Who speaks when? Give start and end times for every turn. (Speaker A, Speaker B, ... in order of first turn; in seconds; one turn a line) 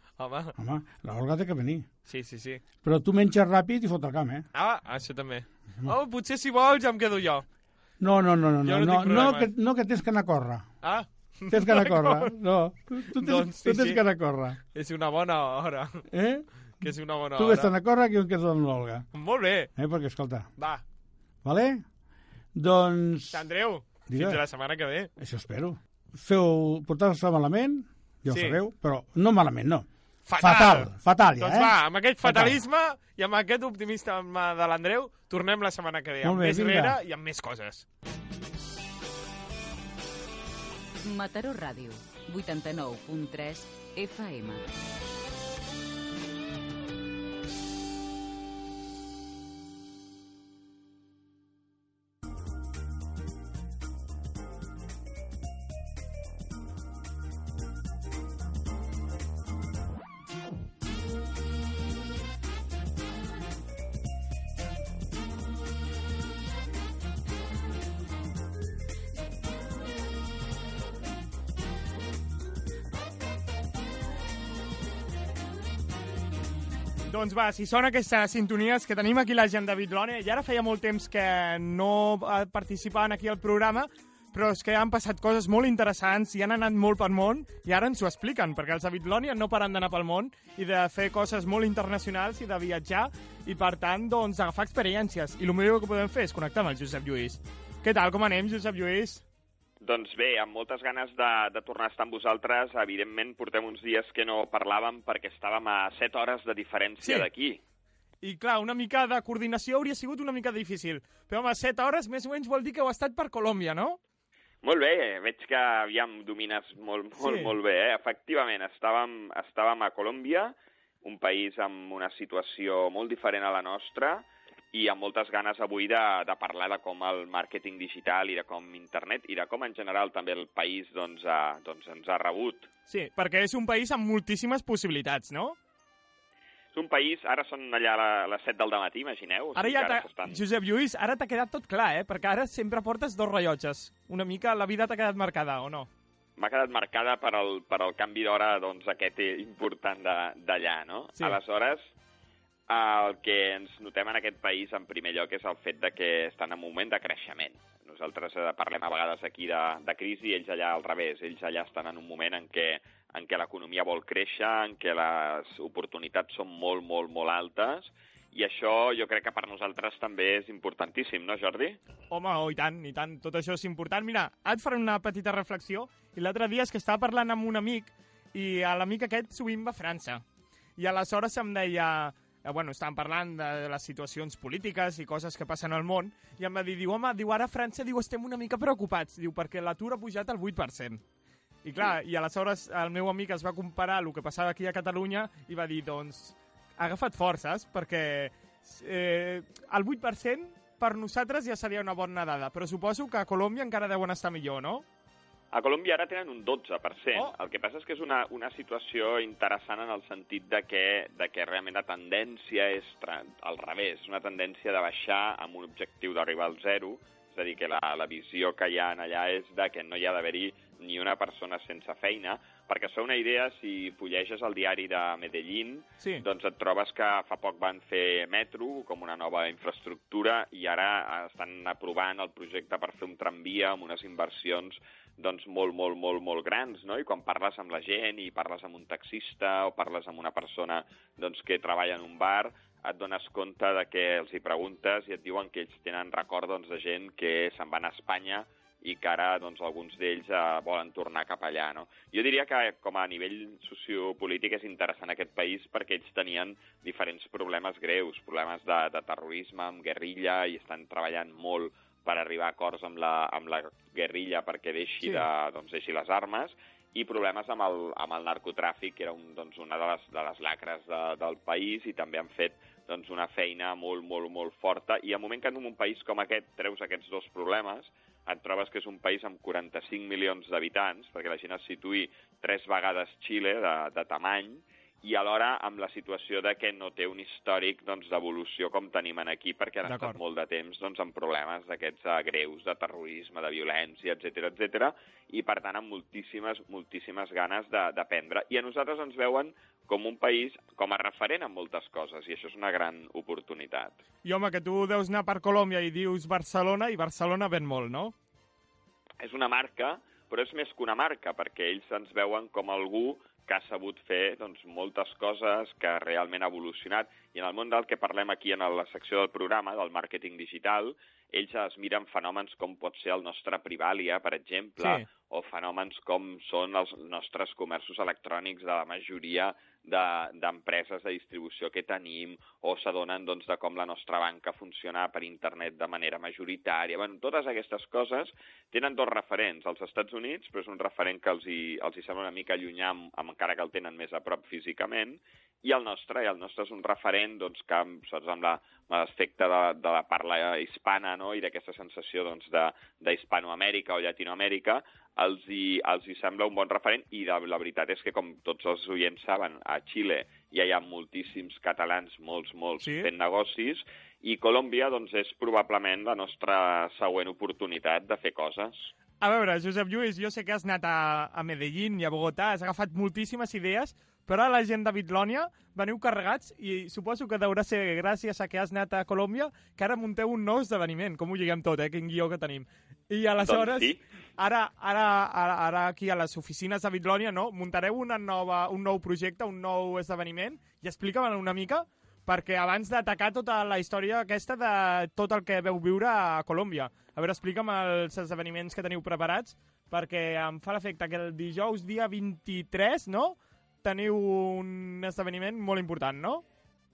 Speaker A: 0.2-0.5
Speaker B: 0.6-1.9
Speaker A: 2.1-2.6
Speaker B: 2.8-4.5
Speaker A: 4.5-7.5
Speaker B: 8.0-10.7
Speaker A: 8.6-9.5
Speaker A: 10.8-12.3
Speaker B: 11.5-14.6
Speaker A: 13.1-14.0
Speaker A: 14.7-16.1
Speaker B: 16.1-19.1
Speaker A: 16.8-17.7
Speaker A: 19.1-19.7
Speaker B: 19.8-20.5
Speaker A: 20.6-20.8
Speaker B: 21.4-21.8
Speaker B: 22.6-23.4
Speaker A: 23.3-25.1
Speaker B: 24.1-24.4
Speaker B: 25.2-32.6
Speaker A: 28.3-28.6
Speaker A: 30.3-37.9
Speaker B: 36.2-37.0
Speaker C: 41.0-44.6
Speaker A: 77.1-99.2
Speaker D: 99.8-107.6
Speaker A: 107.0-107.3
Speaker A: 108.2-114.0
Speaker D: 114.6-132.7
Speaker A: 117.2-117.5
Speaker A: 132.9-135.6
Speaker D: 136.7-140.4
Speaker A: 139.6-145.9
Speaker D: 146.4-151.9
Speaker D: 152.7-171.8
Speaker A: 172.1-180.2
Speaker A: 180.8-191.0
Speaker A: 191.7-204.8
Speaker D: 205.5-304.0
Speaker A: 289.9-290.2
Speaker A: 304.2-308.1
Speaker D: 309.2-368.9
Speaker A: 324.8-325.1
Speaker A: 362.8-363.1
Speaker A: 369.2-406.4
Speaker D: 383.4-384.0